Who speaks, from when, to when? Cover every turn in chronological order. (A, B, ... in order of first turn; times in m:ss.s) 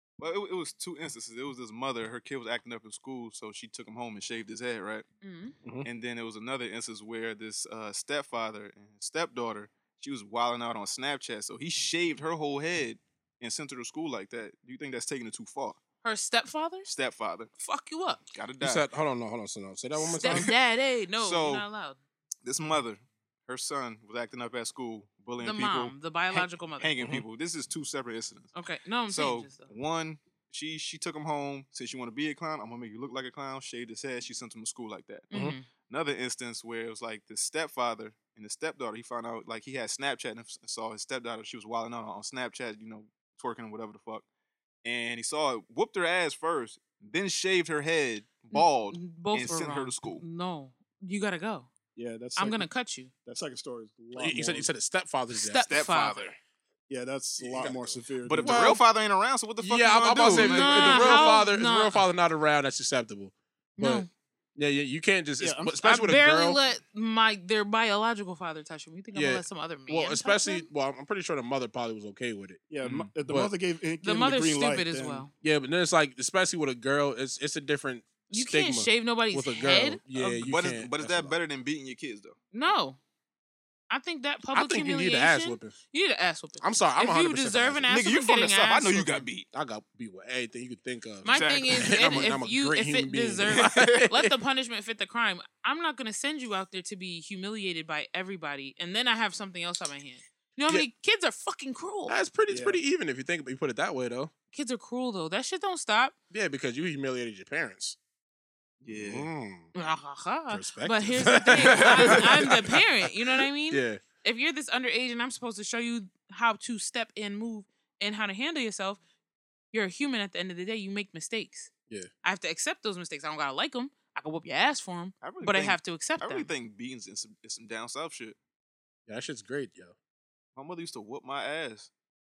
0:00.2-0:05.0 A
0:05.2-0:05.6 B
0:05.8-0:15.8 A
0:16.0-0:16.9 B
0:16.8-0:17.5 A
0:17.6-0:18.2 B
0:18.2-0:18.9 A
0:18.6-0:20.5 C
0:20.0-0:22.0 B
0:20.2-0:20.5 A
0:21.2-0:21.7 A
0:22.4-0:28.5 A
0:25.4-0:27.0 B
0:28.6-0:29.7 B
0:29.1-0:44.2 A
0:35.3-0:35.7 B
0:35.3-0:35.6 C
0:44.8-0:50.2 A
0:48.5-0:51.7 B
0:52.0-0:52.7 D
0:52.4-0:53.1 B
0:53.2-0:54.7 D
0:54.2-0:55.7 C
0:55.4-0:56.3 B
0:55.7-0:56.4 A
0:56.9-0:58.7 D
0:57.4-0:58.8 C
0:58.2-1:01.4 A
0:59.6-1:06.6 C
1:00.2-1:02.0 B
1:03.8-1:04.1 B
1:05.4-1:05.8 D
1:05.8-1:10.7 B
1:09.1-1:12.7 C
1:12.7-1:15.3 D
1:12.8-1:13.1 A
1:13.2-1:13.5 C
1:14.0-1:15.3 B
1:15.4-1:21.4 C
1:18.3-1:20.0 B
1:20.1-1:22.4 A
1:22.5-1:23.0 B
1:23.9-1:29.3 B
1:24.5-1:25.8 C
1:26.6-1:27.9 C
1:27.9-1:29.5 A
1:29.5-1:34.3 C
1:31.2-1:42.2 B
1:31.2-1:32.0 A
1:33.5-1:34.1 A
1:42.1-1:44.3 C
1:42.5-1:42.8 D
1:44.5-1:46.1 B
1:46.3-1:48.0 C
1:48.8-1:49.3 A
1:48.9-1:49.7 C
1:49.8-1:59.0 B
1:50.5-1:54.0 C
1:51.6-1:52.2 A
1:59.7-2:01.7 B
2:02.2-2:06.5 B
2:05.2-2:08.4 A
2:09.1-2:10.0 C
2:10.6-2:11.9 A